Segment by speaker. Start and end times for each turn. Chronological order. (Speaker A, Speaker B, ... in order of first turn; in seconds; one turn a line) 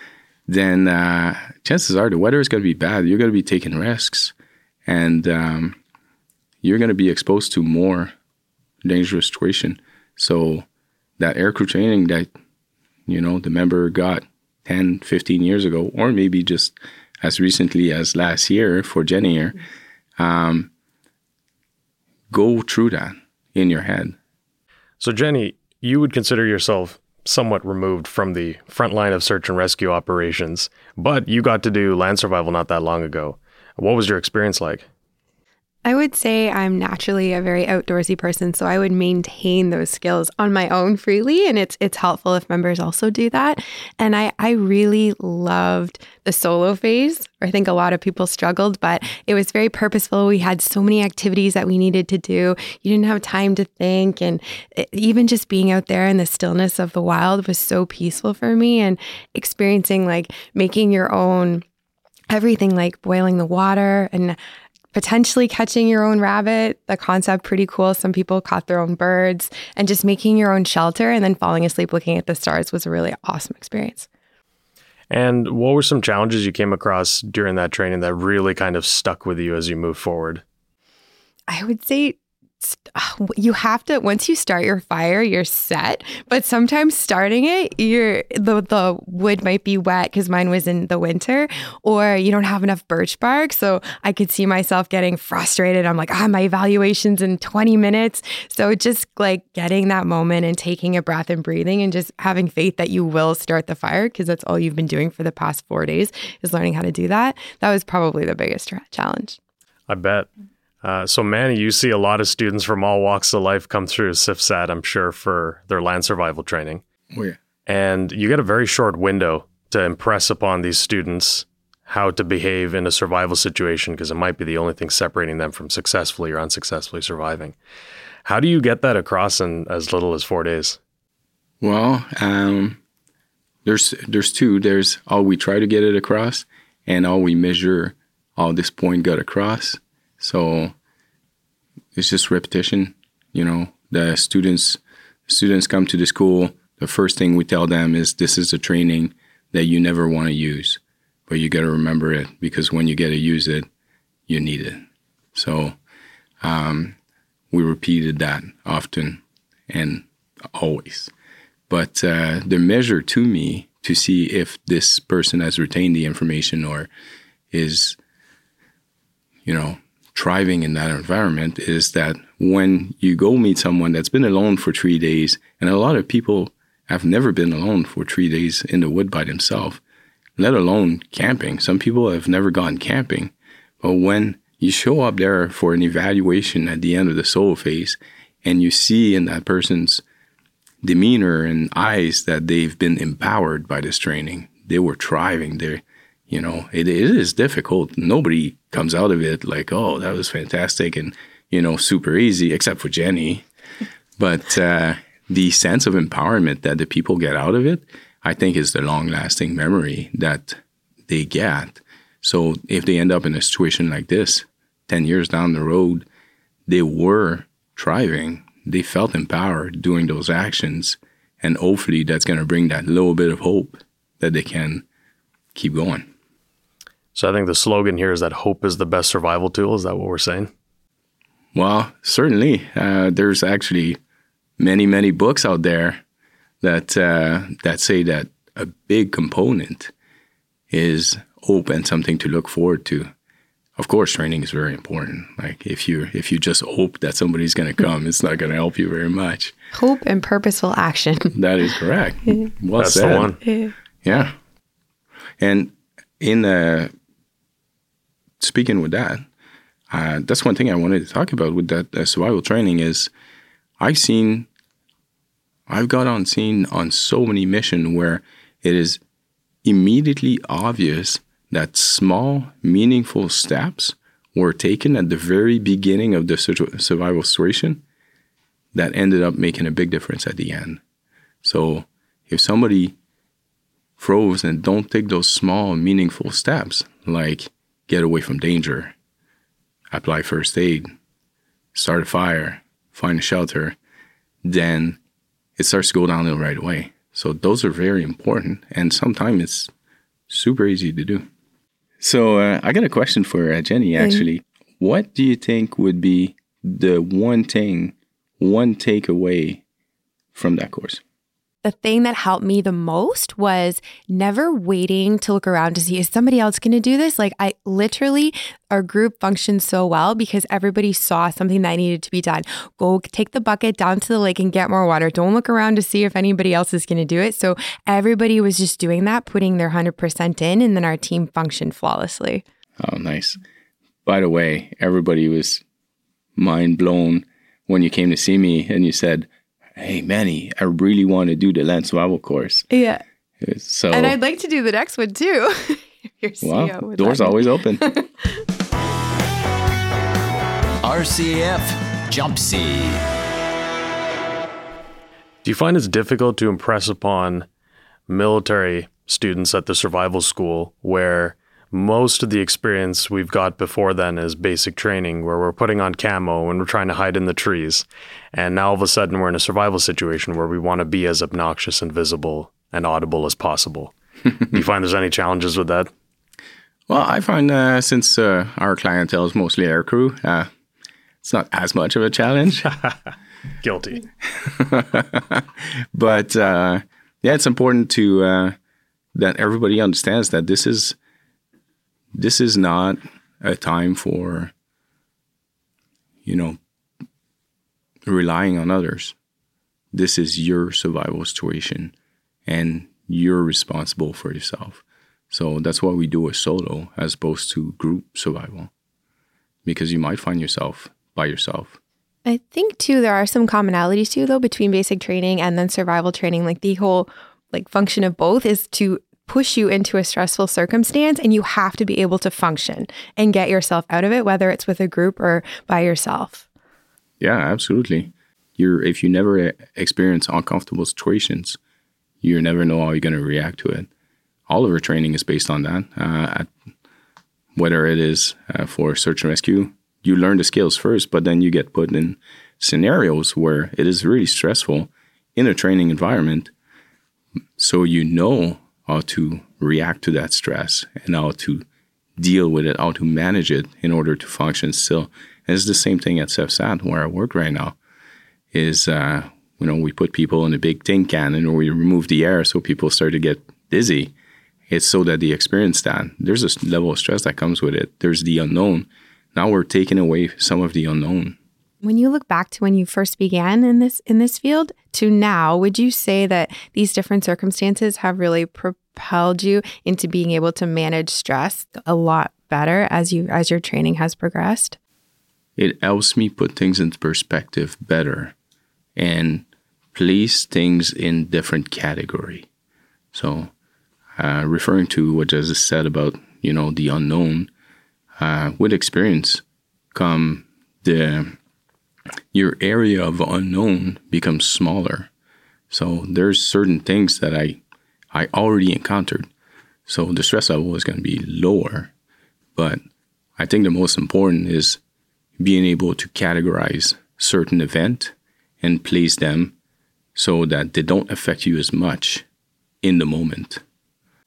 Speaker A: 0.5-4.3
Speaker A: 4.9-5.8
Speaker A: 6.6-8.1
Speaker A: 8.8-10.7
Speaker A: 11.2-12.3
Speaker A: 13.1-19.6
Speaker A: 20.2-20.7
Speaker A: 22.3-24.2
Speaker B: 25.0-34.9
Speaker C: 35.9-61.6
Speaker C: 62.3-64.4
Speaker C: 64.9-74.1
Speaker B: 75.1-80.4
Speaker C: 81.5-109.4
Speaker B: 109.9-110.3
Speaker B: 110.8-116.8
Speaker A: 117.1-117.4
Speaker B: 117.7-127.5
Speaker B: 128.2-130.8
Speaker A: 131.6-132.8
Speaker A: 133.7-140.7
Speaker A: 141.9-153.7
Speaker A: 154.3-154.8
Speaker A: 155.3-155.8
Speaker A: 156.4-156.9
Speaker A: 157.5-161.1
Speaker A: 161.7-166.9
Speaker A: 167.5-168.0
Speaker A: 169.4-179.8
Speaker A: 180.4-190.0
Speaker A: 190.8-203.4
Speaker A: 204.2-216.1
Speaker A: 216.7-224.8
Speaker A: 225.6-226.1
Speaker B: 227.2-230.5
Speaker A: 231.5-234.0
Speaker A: 234.6-236.0
Speaker A: 236.6-239.9
Speaker A: 240.7-243.1
Speaker A: 243.8-249.5
Speaker C: 249.7-251.3
Speaker A: 251.3-253.3
Speaker B: 252.8-253.4
Speaker C: 253.4-253.7
Speaker A: 254.0-254.4
Speaker A: 255.4-256.9
Speaker A: 258.4-259.3
Speaker A: 259.9-263.1
Speaker A: 263.8-264.5
Speaker A: 265.7-269.0
Speaker A: 269.6-277.8
Speaker A: 278.7-280.8
Speaker A: 281.4-282.9
Speaker A: 284.0-288.9
Speaker A: 289.9-290.9
Speaker A: 291.7-293.8
Speaker A: 294.4-295.0
Speaker A: 295.6-299.7
Speaker A: 300.3-301.3
Speaker A: 302.0-309.6
Speaker A: 310.3-311.0
Speaker C: 311.6-332.4
Speaker A: 332.8-333.4
Speaker A: 334.1-335.6
Speaker A: 336.4-342.7
Speaker C: 342.7-343.0
Speaker A: 343.4-344.2
Speaker C: 343.9-348.4
Speaker A: 346.4-347.9
Speaker D: 350.8-353.1
Speaker B: 355.4-357.5
Speaker B: 358.1-375.9
Speaker A: 376.9-380.5
Speaker A: 381.2-382.7
Speaker B: 383.6-384.0
Speaker A: 384.2-388.6
Speaker A: 389.1-391.0
Speaker A: 392.1-394.5
Speaker A: 396.2-396.6
Speaker A: 398.1-399.1
Speaker A: 399.9-401.9
Speaker A: 402.5-408.7
Speaker A: 409.6-411.8
Speaker C: 412.3-426.4
Speaker A: 427.2-431.6
Speaker A: 432.2-433.9
Speaker A: 434.5-436.5
Speaker A: 437.6-446.5
Speaker A: 447.6-451.6
Speaker A: 452.2-457.8
Speaker A: 458.5-464.1
Speaker A: 464.7-471.4
Speaker C: 471.8-484.8
Speaker A: 485.6-488.3
Speaker A: 489.0-492.5
Speaker A: 493.1-493.5
Speaker A: 494.2-497.5
Speaker A: 498.2-499.4
Speaker A: 499.9-501.4
Speaker A: 502.3-505.1
Speaker A: 505.7-507.6
Speaker A: 508.1-509.3
Speaker A: 509.9-511.9
Speaker A: 512.5-512.8
Speaker A: 513.4-514.8
Speaker A: 515.4-519.5
Speaker A: 520.1-522.3
Speaker A: 522.8-523.6